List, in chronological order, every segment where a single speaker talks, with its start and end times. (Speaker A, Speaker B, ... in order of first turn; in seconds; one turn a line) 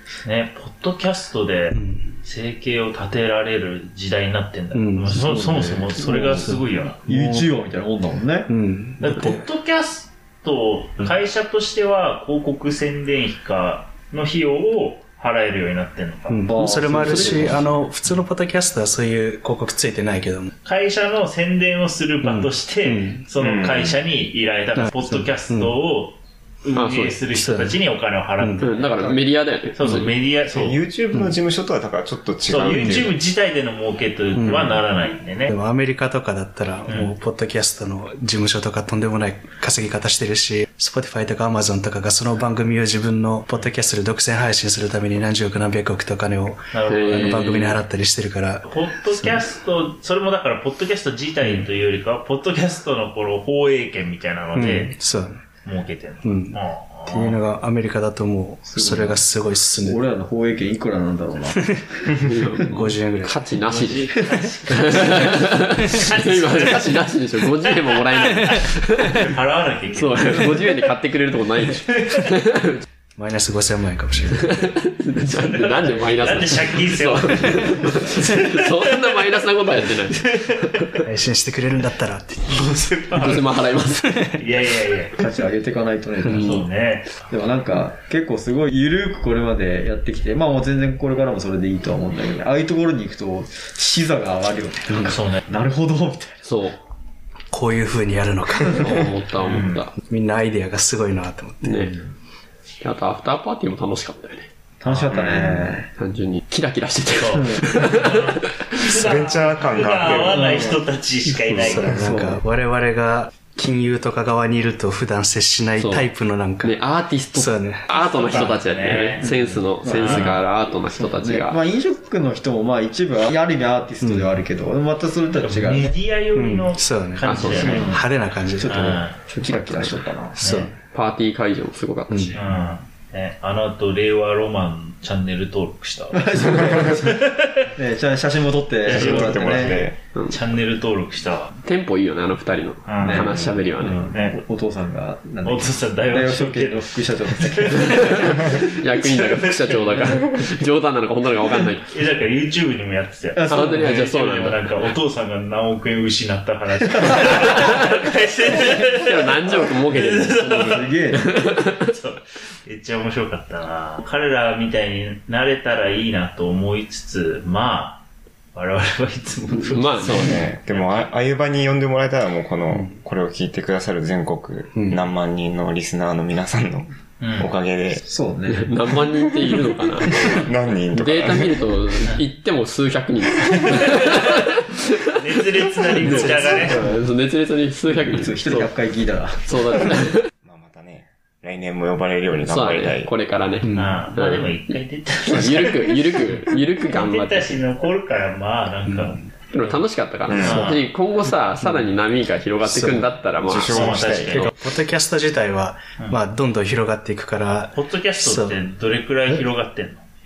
Speaker A: 0.2-7.0
Speaker B: 1.7-2.2
Speaker B: 4.7-5.2
Speaker C: 5.1-8.5
Speaker B: 8.5-9.5
Speaker A: 9.0-16.6
Speaker B: 16.3-20.5
Speaker C: 16.5-17.7
Speaker A: 20.6-30.8
Speaker B: 22.2-23.3
Speaker D: 23.4-24.0
Speaker B: 24.8-25.8
Speaker E: 26.8-27.2
Speaker B: 27.3-27.8
Speaker B: 28.4-28.7
Speaker E: 28.6-30.1
Speaker D: 30.5-33.2
Speaker A: 32.5-35.5
Speaker B: 32.8-33.1
Speaker B: 34.4-34.8
Speaker B: 35.5-49.4
Speaker A: 36.9-37.1
Speaker A: 46.7-47.8
Speaker E: 46.9-47.8
Speaker A: 48.6-55.0
Speaker B: 54.5-55.4
Speaker A: 55.6-57.4
Speaker B: 56.2-60.0
Speaker C: 58.7-59.2
Speaker C: 59.8-62.2
Speaker B: 61.5-61.8
Speaker E: 62.2-64.2
Speaker B: 62.7-63.4
Speaker A: 63.7-67.1
Speaker E: 64.7-69.3
Speaker A: 67.6-70.8
Speaker E: 69.9-72.8
Speaker A: 71.6-72.3
Speaker B: 73.2-74.5
Speaker E: 74.3-80.9
Speaker A: 75.3-79.0
Speaker A: 80.2-81.0
Speaker B: 81.0-82.6
Speaker A: 82.5-83.5
Speaker E: 83.2-84.3
Speaker A: 84.4-85.2
Speaker C: 85.2-86.7
Speaker A: 86.3-87.3
Speaker C: 87.3-96.5
Speaker B: 94.9-95.2
Speaker A: 95.0-95.4
Speaker E: 96.4-96.8
Speaker B: 97.5-99.1
Speaker E: 98.7-99.9
Speaker A: 99.4-99.8
Speaker B: 100.1-101.9
Speaker E: 101.6-102.0
Speaker E: 102.8-104.5
Speaker C: 104.8-105.9
Speaker A: 104.8-105.4
Speaker D: 105.1-105.7
Speaker E: 106.0-108.5
Speaker A: 107.2-112.0
Speaker C: 107.3-107.8
Speaker D: 108.9-110.8
Speaker C: 110.3-110.6
Speaker E: 111.5-111.9
Speaker B: 111.6-116.8
Speaker C: 111.8-112.4
Speaker E: 115.8-116.1
Speaker E: 116.6-121.6
Speaker B: 117.3-118.5
Speaker A: 118.0-120.4
Speaker C: 119.2-126.0
Speaker B: 124.0-124.4
Speaker A: 125.4-128.1
Speaker B: 126.3-129.0
Speaker E: 127.2-127.9
Speaker C: 127.5-128.0
Speaker C: 128.6-130.5
Speaker A: 128.7-129.2
Speaker A: 130.4-130.7
Speaker B: 130.4-130.8
Speaker E: 130.9-132.4
Speaker B: 132.1-132.4
Speaker A: 132.3-137.4
Speaker C: 136.1-137.2
Speaker C: 137.8-139.9
Speaker A: 138.8-141.5
Speaker D: 138.9-140.0
Speaker E: 140.2-140.4
Speaker E: 141.7-144.1
Speaker A: 142.9-143.3
Speaker C: 143.0-148.2
Speaker A: 144.1-144.4
Speaker A: 145.4-150.4
Speaker E: 147.9-151.9
Speaker A: 151.9-168.0
Speaker C: 153.4-154.0
Speaker E: 153.5-154.6
Speaker E: 157.4-157.8
Speaker E: 158.8-161.8
Speaker C: 160.4-161.3
Speaker A: 168.6-171.1
Speaker E: 169.7-170.4
Speaker D: 170.1-178.0
Speaker B: 172.7-173.0
Speaker B: 174.8-175.0
Speaker A: 177.2-177.5
Speaker C: 177.9-179.0
Speaker E: 178.5-185.0
Speaker D: 180.3-181.7
Speaker A: 185.1-186.8
Speaker E: 185.9-188.7
Speaker C: 186.1-186.8
Speaker C: 188.1-189.6
Speaker E: 189.4-190.3
Speaker D: 190.4-193.1
Speaker E: 192.5-197.6
Speaker B: 193.6-194.1
Speaker A: 193.7-199.8
Speaker B: 198.9-199.2
Speaker E: 199.5-204.5
Speaker D: 200.3-200.8
Speaker A: 200.4-200.8
Speaker B: 201.6-201.9
Speaker B: 202.7-203.1
Speaker D: 203.4-204.5
Speaker A: 203.7-204.5
Speaker B: 204.6-208.7
Speaker A: 207.7-210.1